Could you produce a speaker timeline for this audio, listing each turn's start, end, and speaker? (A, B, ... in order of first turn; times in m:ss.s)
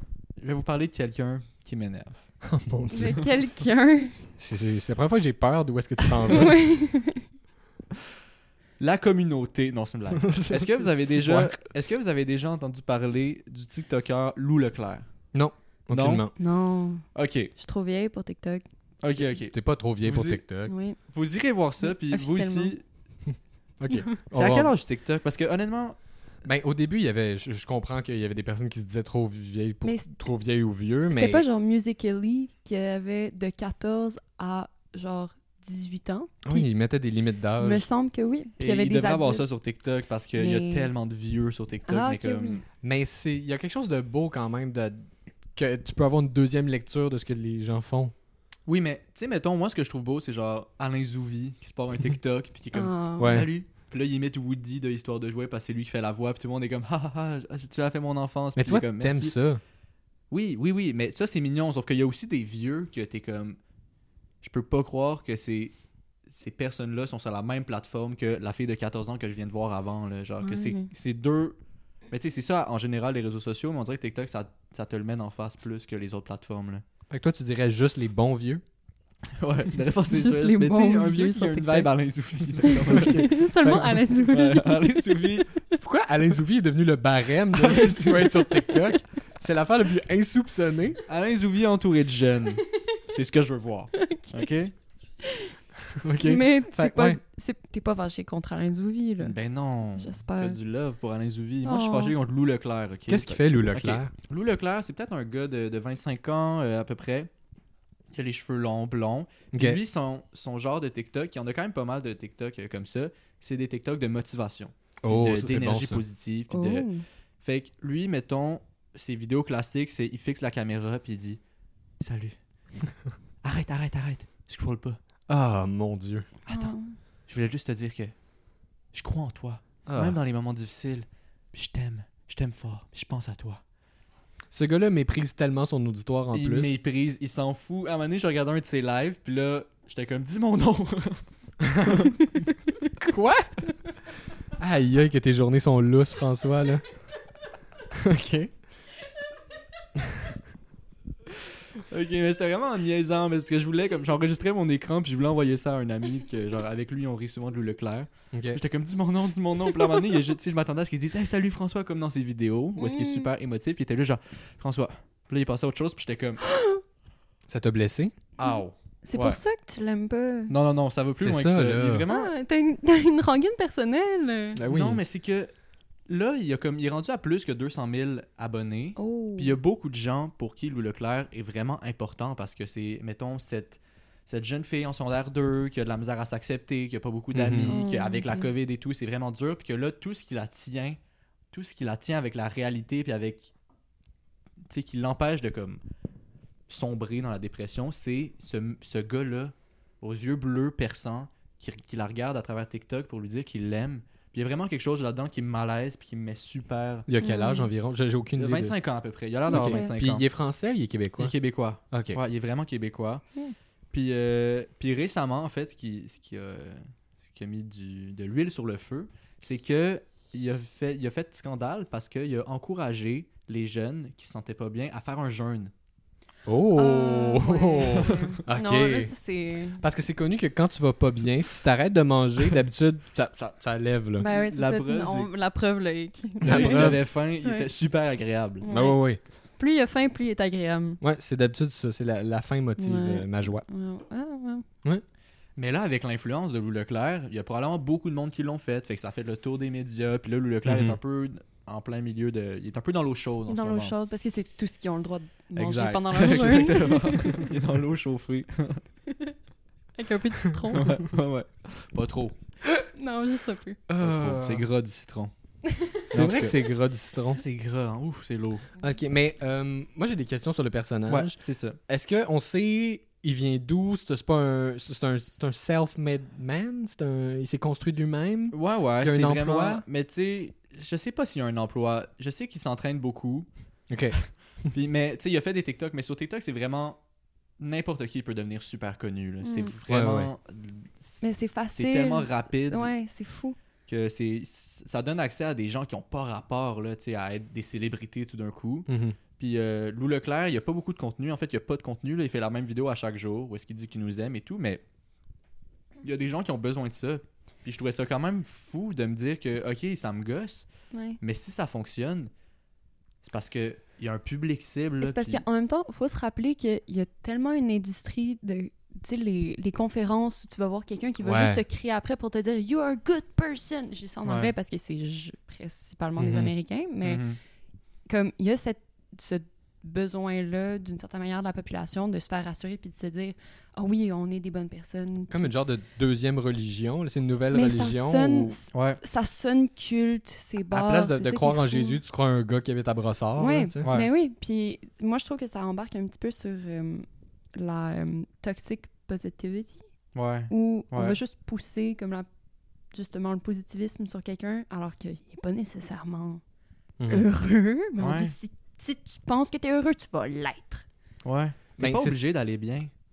0:00.4-0:02.3 A
0:02.4-0:03.3 B
0:02.9-0:04.3 C
0:04.4-0:06.7 B
0:06.3-0:07.2 C
0:08.8-0:15.2 A
0:10.3-0:11.6 B
0:15.3-0:16.3 B
0:15.9-0:16.4 A
0:16.4-0:18.6 C
0:17.1-0:17.5 A
0:19.0-0:20.4 A
0:19.5-0:20.7 B
0:20.7-0:21.0 C
0:21.0-0:22.8 A
0:21.8-0:22.7 C
0:23.3-0:24.7 B
0:24.3-0:26.0 A
0:26.4-0:31.4 B
0:29.8-0:30.1 C
0:31.1-0:36.7 C
0:36.4-0:37.9 B
0:37.6-0:39.4 C
0:38.6-0:42.6 A
0:40.4-0:40.9 C
0:41.9-0:42.6 C
0:42.8-0:48.1 B
0:48.7-0:59.4 A
0:52.7-0:53.4 C
0:53.2-0:53.5 B
0:58.6-0:59.6 B
1:00.3-1:03.6 A
1:04.4-1:05.7 A
1:06.3-1:11.6 A
1:10.4-1:10.9 C
1:12.1-1:16.8 A
1:17.1-1:18.6 B
1:19.4-1:23.4 A
1:20.1-1:21.9 C
1:22.7-1:25.3 C
1:22.9-1:24.0 B
1:24.2-1:25.5 A
1:25.8-1:31.0 B
1:27.5-1:28.4 A
1:31.1-1:34.7 A
1:34.0-1:34.4 C
1:35.2-1:35.5 C
1:36.0-1:37.2 B
1:36.2-1:39.4 C
1:39.2-1:47.3 A
1:40.0-1:40.6 C
1:41.6-1:42.2 C
1:43.1-1:44.1 B
1:48.1-1:56.9 A
1:49.5-1:49.8 B
1:55.0-1:56.0 B
1:56.5-1:57.0 C
1:57.4-2:01.4 A
2:02.0-2:02.4 A
2:02.9-2:05.0 A
2:05.3-2:06.3 B
2:06.5-2:06.8 A
2:06.5-2:07.0 C
2:07.3-2:08.2 A
2:08.9-2:13.6 A
2:09.9-2:10.2 B
2:14.5-2:16.7 B
2:16.3-2:21.3 A
2:21.8-2:22.2 A
2:23.0-2:23.7 B
2:24.6-2:26.8 B
2:27.9-2:28.5 B
2:30.1-2:30.3 B
2:31.8-2:46.4 A
2:38.3-2:38.6 B
2:42.8-2:43.3 C
2:46.4-2:46.8 C
2:47.5-2:48.1 B
2:48.4-2:49.4 A
2:48.4-2:50.5 C
2:50.5-2:52.3 A
2:51.2-2:52.1 B
2:52.1-2:54.6 C
2:54.6-2:55.0 B
2:54.7-2:55.5 A
2:56.1-3:11.0 A
2:59.0-2:59.6 C
3:07.3-3:07.7 B
3:07.7-3:08.5 C
3:11.5-3:13.5 A
3:14.7-3:15.8 A
3:16.7-3:27.1 A
3:27.1-3:28.8 B
3:27.2-3:27.7 C
3:28.4-3:30.3 A
3:29.5-3:29.9 C
3:29.5-3:31.3 B
3:31.2-3:33.3 A
3:31.9-3:32.2 B
3:33.9-3:45.7 A
3:46.5-3:49.1 B
3:46.8-3:49.8 C
3:49.8-3:54.3 B
3:54.2-3:57.7 C
3:54.3-3:55.3 A
3:56.4-3:57.0 B
3:56.4-3:58.7 A
3:58.6-3:59.1 C
3:58.7-3:59.2 B
3:59.6-4:01.0 C
4:01.0-4:03.7 B
4:02.8-4:04.6 C
4:05.6-4:14.0 A
4:10.6-4:11.0 B
4:13.5-4:17.4 C
4:15.6-4:18.8 A
4:19.1-4:19.4 C
4:20.0-4:21.0 C
4:20.7-4:22.4 A
4:22.9-4:23.8 C
4:23.9-4:24.7 B
4:24.0-4:25.3 A
4:25.7-4:25.9 C
4:26.1-4:26.6 A
4:26.1-4:27.4 B
4:27.4-4:28.7 A
4:28.8-4:39.8 B
4:31.1-4:31.8 A
4:38.5-4:43.5 A
4:43.9-4:44.2 B
4:44.2-4:47.0 A
4:47.6-4:51.2 A
4:49.4-4:49.7 C
4:49.9-4:50.3 B
4:51.2-4:53.6 C
4:51.7-4:52.9 A
4:53.9-5:04.8 A
4:58.9-4:59.2 B
5:06.0-5:10.7 A
5:10.9-5:11.2 C
5:11.2-5:12.3 A
5:13.2-5:15.4 A
5:15.0-5:27.3 C
5:21.2-5:21.6 B
5:24.2-5:24.5 A
5:26.2-5:26.5 B
5:27.0-5:27.4 A
5:28.1-5:35.5 C
5:35.3-5:38.6 B
5:37.5-5:42.0 C
5:38.7-5:39.0 A
5:40.7-5:43.9 B
5:43.4-5:49.9 C
5:43.8-5:44.1 A
5:50.1-5:51.2 A
5:50.5-5:52.3 C
5:52.9-5:56.4 C
5:57.0-5:57.3 B
5:57.1-6:00.9 C
5:58.0-5:58.3 A
6:01.2-6:02.9 A
6:01.8-6:02.2 B